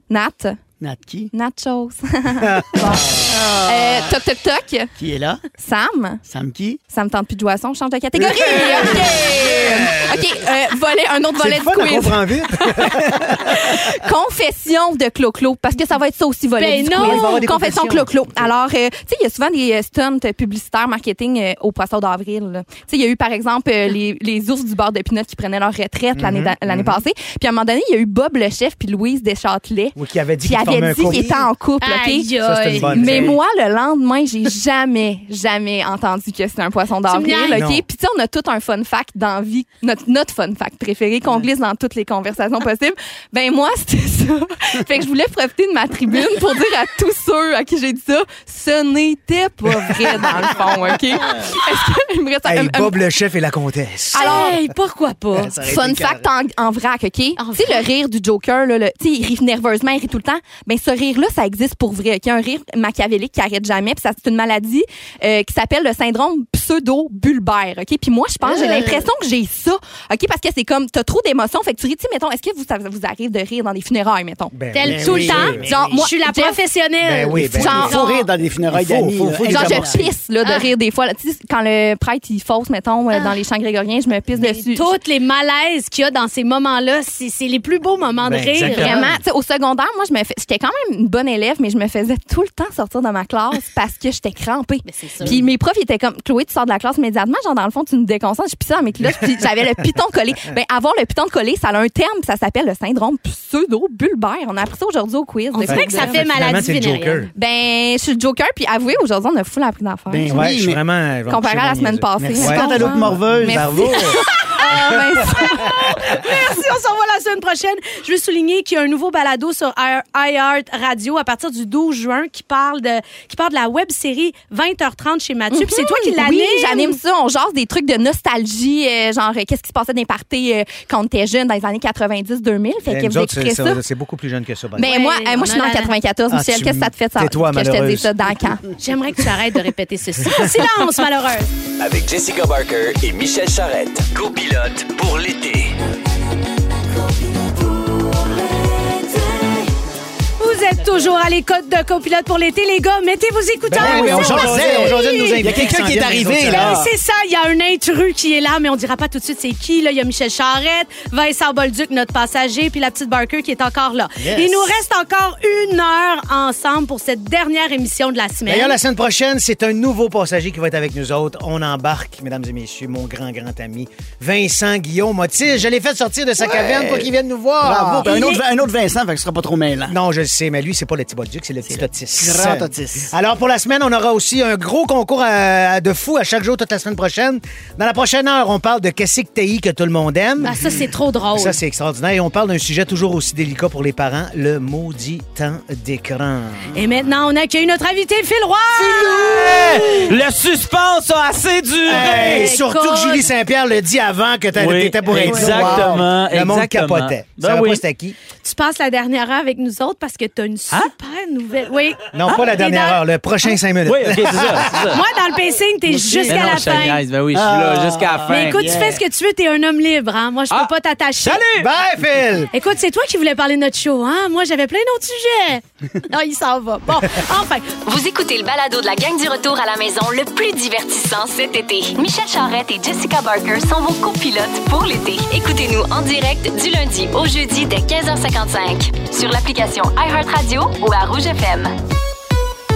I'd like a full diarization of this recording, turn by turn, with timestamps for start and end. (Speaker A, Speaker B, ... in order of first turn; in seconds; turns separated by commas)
Speaker A: 0.1-0.6, Speaker B: 0.8-1.3, Speaker A: 1.3-4.9, Speaker C: 2.4-3.2, Speaker B: 3.3-4.1, Speaker B: 5.0-5.4, Speaker A: 5.6-6.2, Speaker B: 6.2-6.8, Speaker A: 6.9-53.0, Speaker C: 8.2-10.2, Speaker C: 11.3-13.8, Speaker D: 16.6-17.4, Speaker C: 17.0-18.5, Speaker C: 26.1-27.0, Speaker C: 29.9-31.5, Speaker D: 31.8-33.4, Speaker C: 32.4-33.4, Speaker D: 37.1-37.6, Speaker C: 37.5-37.8, Speaker C: 52.4-54.5, Speaker A: 54.1-54.5, Speaker D: 54.1-55.5, Speaker B: 55.4-56.2, Speaker C: 55.5-56.1, Speaker A: 55.6-74.6, Speaker D: 57.4-57.9, Speaker B: 68.4-69.1, Speaker C: 74.5-75.7, Speaker D: 74.7-78.2, Speaker B: 74.8-76.0, Speaker A: 75.6-76.6, Speaker C: 77.0-78.0, Speaker A: 77.5-78.1, Speaker B: 77.6-80.0, Speaker C: 78.7-80.1, Speaker A: 79.4-85.0, Speaker D: 80.4-80.7, Speaker D: 83.1-83.4, Speaker D: 84.4-89.0, Speaker C: 88.2-89.2, Speaker A: 88.7-106.2, Speaker D: 94.8-95.4, Speaker D: 105.5-107.3, Speaker C: 105.7-107.3, Speaker A: 107.3-110.5, Speaker B: 110.1-110.8, Speaker C: 110.3-115.2, Speaker A: 111.3-116.1, Speaker B: 112.2-114.0, Speaker D: 114.4-114.7, Speaker D: 115.6-127.0, Speaker A: 125.5-133.8, Speaker C: 132.9-134.9, Speaker A: 134.8-138.7, Speaker D: 134.8-135.9, Speaker C: 136.3-138.1, Speaker D: 138.8-141.5, Speaker E: 141.8-145.7, Speaker D: 149.1-149.6, Speaker D: 150.4-155.4, Speaker C: 153.7-156.9, Speaker B: 153.8-156.9, Speaker D: 156.5-168.8, Speaker C: 164.2-164.8, Speaker C: 168.4-178.3, Speaker B: 176.4-180.0, Speaker D: 178.0-178.4, Speaker C: 179.9-190.6, Speaker B: 181.7-183.1, Speaker D: 190.4-191.6, Speaker C: 191.3-196.7, Speaker D: 196.7-199.3, Speaker F: 198.8-202.5, Speaker C: 198.9-200.0, Speaker C: 201.9-208.2, Speaker D: 201.9-203.3, Speaker F: 204.5-207.8, Speaker B: 205.1-206.1, Speaker D: 208.4-213.0, Speaker C: 212.1-214.9, Speaker F: 212.3-212.5, Speaker F: 213.8-215.0, Speaker D: 214.7-217.0, Speaker C: 215.9-216.7, Speaker F: 216.2-218.7, Speaker B: 217.3-219.0, Speaker D: 218.3-221.4, Speaker F: 220.5-221.7, Speaker C: 221.5-222.5, Speaker D: 222.5-227.7, Speaker G: 227.8-241.7